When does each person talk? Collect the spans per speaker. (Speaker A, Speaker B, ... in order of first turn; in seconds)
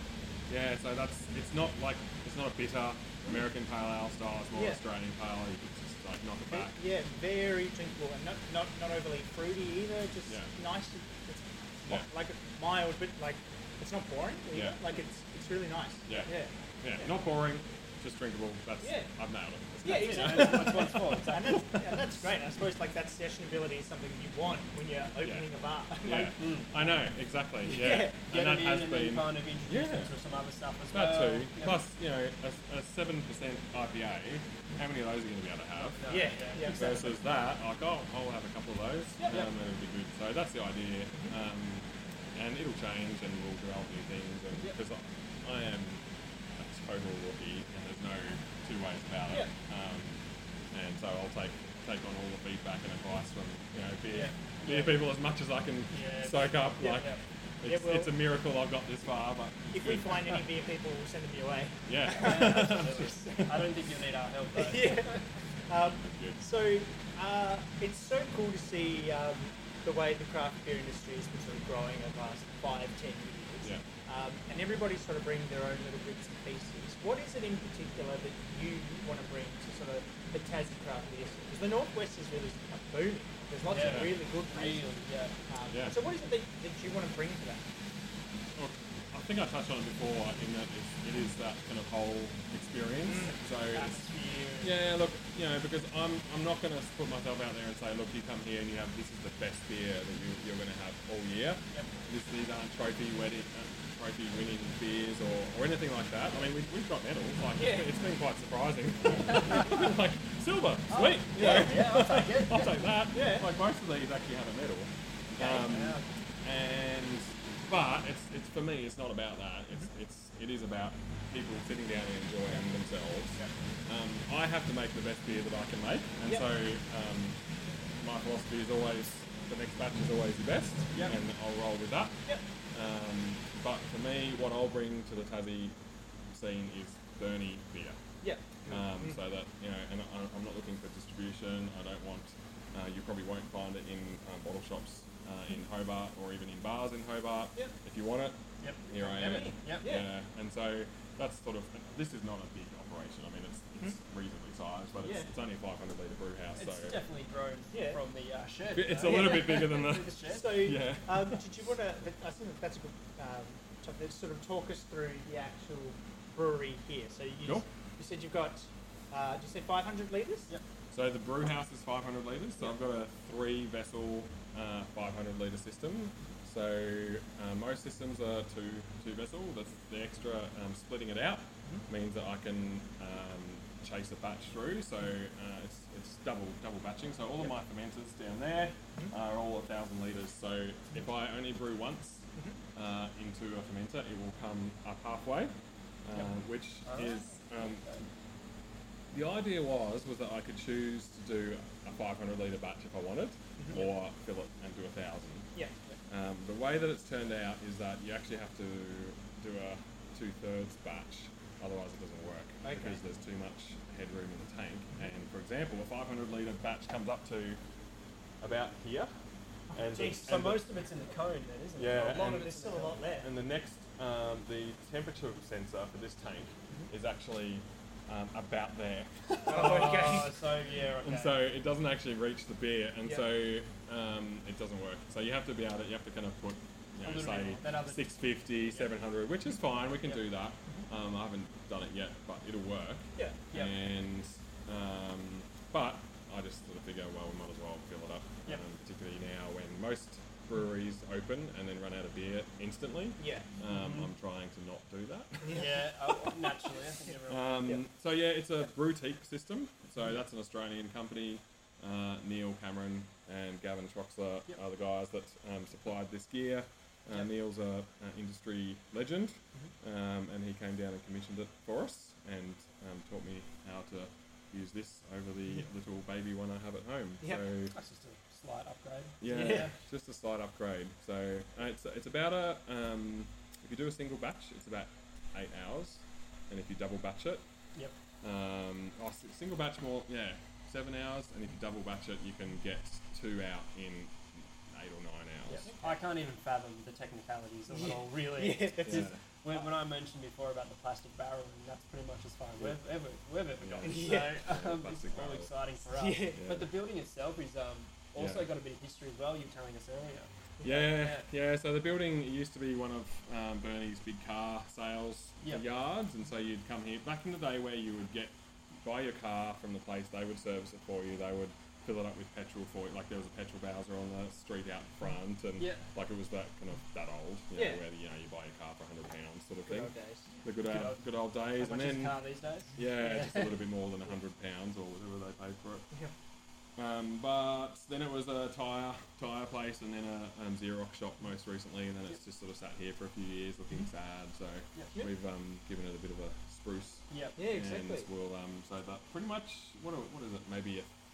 Speaker A: 0.5-6.8, 10.3-10.5, 14.5-14.8, 16.1-21.2, 26.0-30.1, 30.9-46.0, 46.6-50.2, 50.7-60.4, 61.9-63.6, 65.8-66.4, 83.7-84.2, 85.7-86.0, 88.5-94.0, 94.6-127.4, 128.0-132.2, 132.7-135.8, 136.3-138.0, 138.7-157.0, 158.7-161.4, 170.9-195.5, 196.0-198.0, 199.1-205.5, 206.1-217.6, 218.4-219.1, 219.7-220.7, 221.8-222.5, 223.2-230.4, 231.0-255.6, 257.3-277.7, 279.2-287.4, 288.2-295.6, 298.8-299.2, 303.6-305.5, 306.3-306.7, 308.1-308.5, 310.6-332.2, 332.7-335.9, 336.8-350.9
Speaker B: 4.5-4.8, 6.5-17.1, 18.8-19.1, 19.8-26.4, 27.6-28.2, 36.1-37.0, 57.6-58.1, 59.7-63.4, 64.5-84.9, 85.5-87.7, 93.0-93.3, 107.5-107.9, 111.3-111.8, 113.1-113.5, 138.2-139.2, 149.0-150.1, 155.0-155.3, 157.7-158.0, 159.1-159.6, 160.2-170.5, 212.6-213.0, 219.7-220.3, 222.2-223.3, 229.4-230.3, 253.2-253.5, 279.2-279.7, 295.6-296.0, 297.7-299.1, 303.8-304.4, 305.9-306.4, 327.5-327.8, 329.7-330.3, 347.4-348.1
Speaker C: 20.0-21.8, 26.4-26.7, 28.3-31.8, 35.8-37.1, 54.1-55.0, 55.9-57.2, 62.1-65.0, 83.7-85.4, 93.7-94.7, 109.3-109.7, 110.9-112.8, 115.4-116.0, 148.6-149.9, 156.6-160.6, 196.8-198.0, 220.2-223.0, 229.5-231.5, 237.0-238.9, 253.6-254.1, 255.5-257.8, 277.7-279.7, 295.5-311.2, 325.6-325.8, 330.6-333.6, 347.1-347.4